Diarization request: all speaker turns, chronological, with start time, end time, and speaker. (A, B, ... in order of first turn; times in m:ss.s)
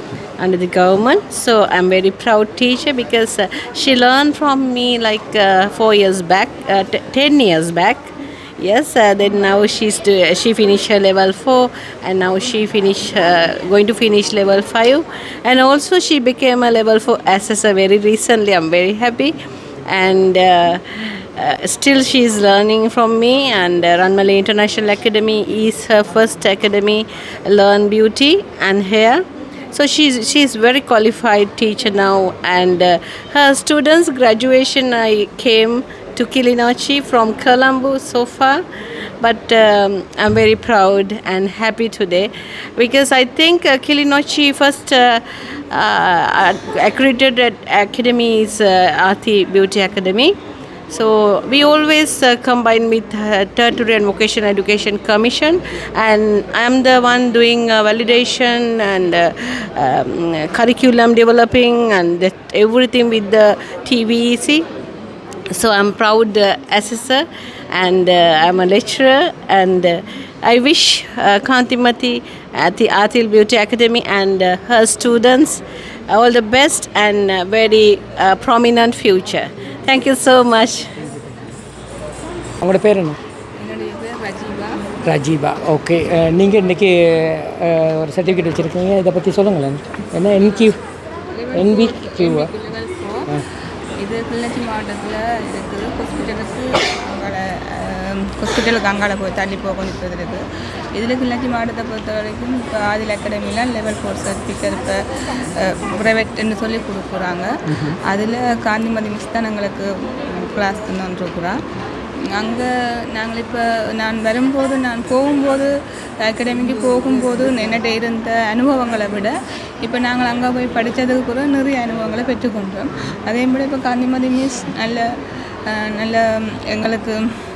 0:00.4-0:19.3 A
0:19.9-0:20.8 A
0:21.4-0:38.6 A
0:39.2-0:50.4 A
0:50.9-1:04.7 A
1:05.5-1:21.0 A
1:22.6-1:23.2 B
1:23.6-1:24.8 C
1:25.0-1:30.8 B
1:31.4-1:33.3 C
1:31.5-1:32.5 B
1:34.0-1:40.4 C
1:41.0-1:45.0 C
1:45.6-1:47.5 C
1:47.7-1:48.0 B
1:48.1-1:51.6 C
1:52.3-1:55.7 C
1:56.2-2:05.1 C
2:05.7-2:07.3 C